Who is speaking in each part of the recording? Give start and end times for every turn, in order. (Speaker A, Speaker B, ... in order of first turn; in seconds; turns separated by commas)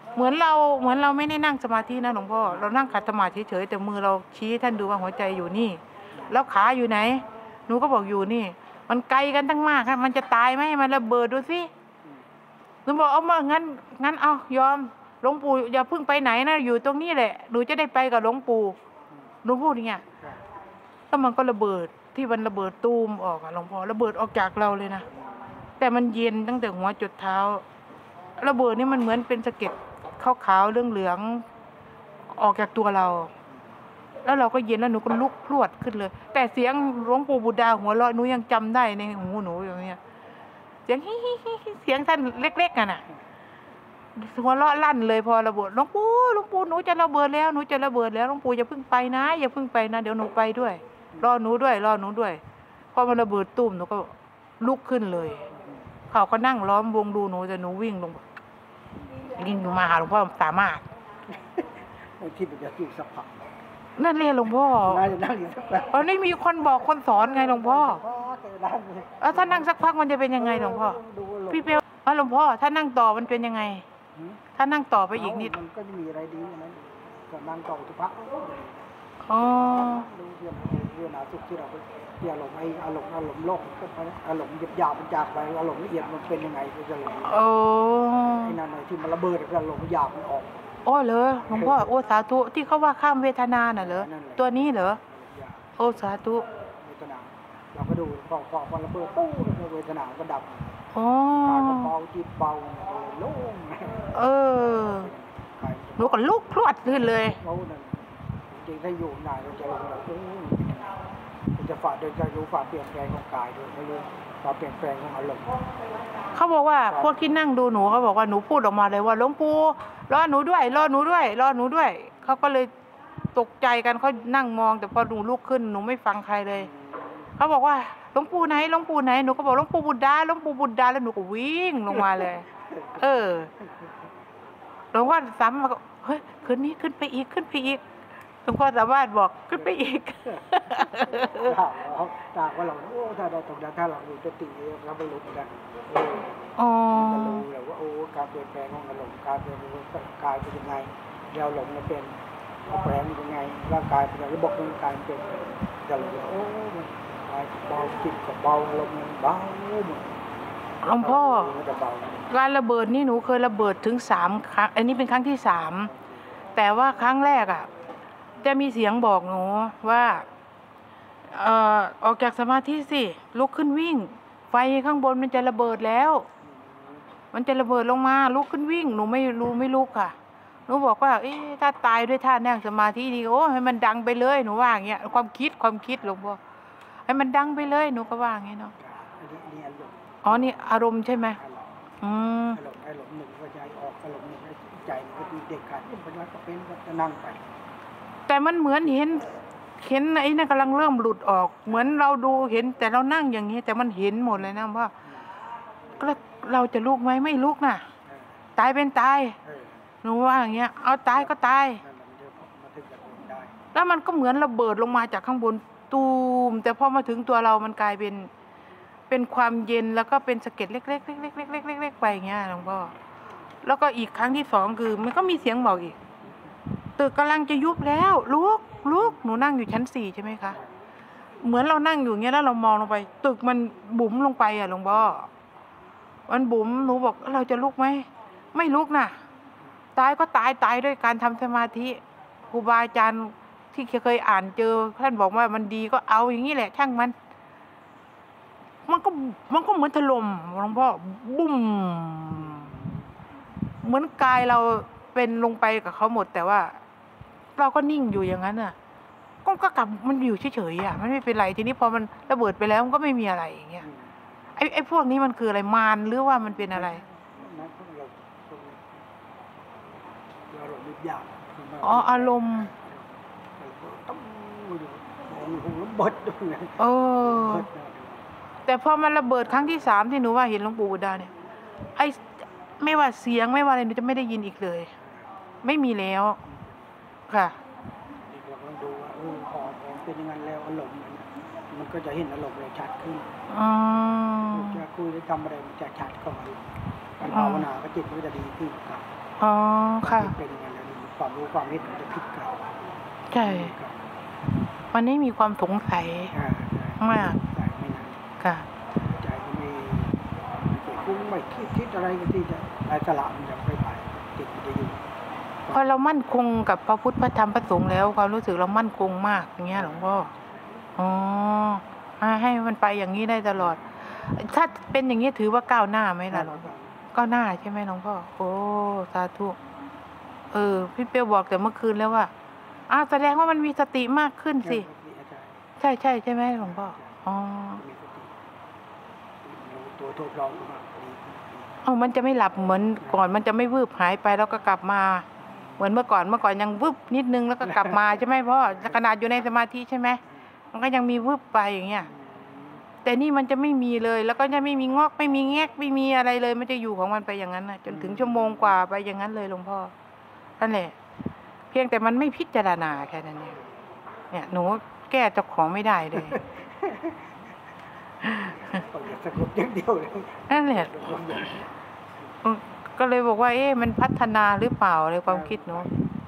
Speaker A: 0.1-11.7, Speaker B: 6.1-6.4, Speaker A: 12.8-18.8, Speaker A: 19.4-20.1, Speaker A: 21.1-25.1, Speaker B: 25.1-25.6, Speaker A: 25.8-27.6, Speaker A: 28.4-31.4, Speaker A: 32.3-33.3, Speaker A: 34.2-40.0, Speaker A: 40.9-43.0, Speaker A: 44.1-52.4, Speaker A: 52.9-55.5, Speaker B: 55.5-55.9, Speaker A: 56.1-58.2, Speaker A: 59.3-60.9, Speaker B: 61.3-63.5, Speaker A: 64.0-65.0, Speaker B: 64.7-69.7, Speaker A: 65.9-68.0, Speaker A: 69.2-73.8, Speaker B: 70.4-71.8, Speaker B: 74.2-74.4, Speaker A: 74.6-75.6, Speaker B: 75.1-78.9, Speaker A: 79.3-80.1, Speaker B: 79.4-87.4, Speaker A: 87.2-88.6, Speaker B: 88.2-90.6, Speaker A: 90.9-95.0, Speaker B: 91.4-92.0, Speaker B: 93.8-95.7, Speaker A: 95.8-96.5, Speaker B: 96.8-100.8, Speaker A: 100.9-101.9, Speaker B: 101.3-106.3, Speaker A: 104.1-105.1, Speaker A: 106.0-107.4, Speaker B: 107.1-111.0, Speaker B: 111.6-115.6, Speaker A: 116.3-122.7, Speaker B: 116.9-117.2, Speaker A: 123.3-126.7, Speaker B: 126.5-127.3, Speaker A: 127.4-132.5, Speaker B: 131.9-133.9, Speaker A: 133.0-133.5, Speaker A: 134.9-137.8, Speaker A: 138.4-141.6, Speaker B: 139.6-146.3, Speaker A: 146.6-147.5, Speaker B: 146.9-152.2, Speaker B: 152.7-160.2, Speaker A: 160.8-161.5, Speaker B: 161.0-162.3, Speaker A: 162.3-165.9, Speaker B: 165.9-166.2, Speaker A: 166.6-167.7, Speaker A: 168.4-170.3, Speaker A: 171.3-176.3, Speaker B: 176.4-177.1, Speaker A: 177.3-180.2, Speaker A: 180.7-186.4, Speaker A: 187.1-188.7, Speaker B: 188.8-191.8, Speaker A: 190.2-191.4, Speaker A: 192.0-192.6, Speaker B: 192.5-197.5, Speaker A: 198.3-204.9, Speaker B: 201.7-202.0, Speaker B: 205.0-205.3, Speaker A: 206.0-207.9, Speaker B: 208.1-208.4, Speaker A: 208.6-209.4, Speaker B: 209.4-209.9, Speaker A: 210.0-211.8, Speaker B: 211.1-213.6, Speaker A: 213.7-218.3, Speaker A: 219.1-222.9, Speaker A: 223.6-226.0, Speaker A: 227.0-230.6, Speaker A: 231.4-235.3, Speaker A: 236.3-239.2, Speaker A: 239.9-247.2, Speaker A: 248.9-252.8, Speaker B: 252.3-253.2, Speaker A: 253.8-256.8, Speaker A: 257.6-258.8, Speaker A: 259.4-263.9, Speaker B: 263.8-264.4, Speaker A: 264.6-267.0, Speaker B: 266.7-269.0, Speaker B: 270.5-278.3, Speaker A: 271.8-272.7, Speaker A: 276.8-277.7, Speaker A: 278.7-281.3, Speaker A: 282.0-284.9, Speaker B: 285.0-285.3, Speaker A: 285.6-286.4, Speaker B: 286.4-286.9, Speaker A: 287.3-287.6, Speaker B: 288.2-293.3, Speaker A: 293.5-294.8, Speaker B: 294.5-296.6, Speaker B: 297.2-299.1, Speaker A: 297.3-297.7, Speaker A: 299.4-300.3, Speaker B: 300.0-302.6, Speaker A: 303.3-303.7, Speaker B: 303.3-304.2, Speaker A: 304.9-306.3, Speaker B: 306.3-308.2, Speaker A: 307.0-307.4, Speaker A: 308.4-308.7, Speaker B: 309.0-315.0, Speaker B: 315.7-316.0, Speaker A: 315.7-320.3, Speaker B: 319.7-320.4, Speaker A: 321.0-329.6, Speaker B: 326.3-327.0, Speaker A: 330.5-332.3, Speaker A: 332.9-334.9, Speaker B: 334.6-335.7, Speaker A: 335.8-337.8, Speaker B: 336.6-337.2, Speaker B: 337.8-338.3, Speaker B: 339.4-341.7, Speaker A: 341.8-345.3, Speaker A: 345.8-350.2, Speaker B: 347.6-348.0, Speaker B: 348.7-349.0, Speaker A: 350.7-352.1, Speaker B: 352.1-352.9, Speaker A: 353.0-359.9, Speaker B: 357.9-358.8, Speaker A: 360.6-360.9, Speaker A: 361.7-363.6, Speaker A: 364.3-366.4, Speaker B: 366.1-367.2, Speaker A: 368.2-368.6, Speaker B: 368.7-371.7, Speaker A: 370.5-371.0, Speaker A: 372.4-375.9, Speaker B: 375.3-376.1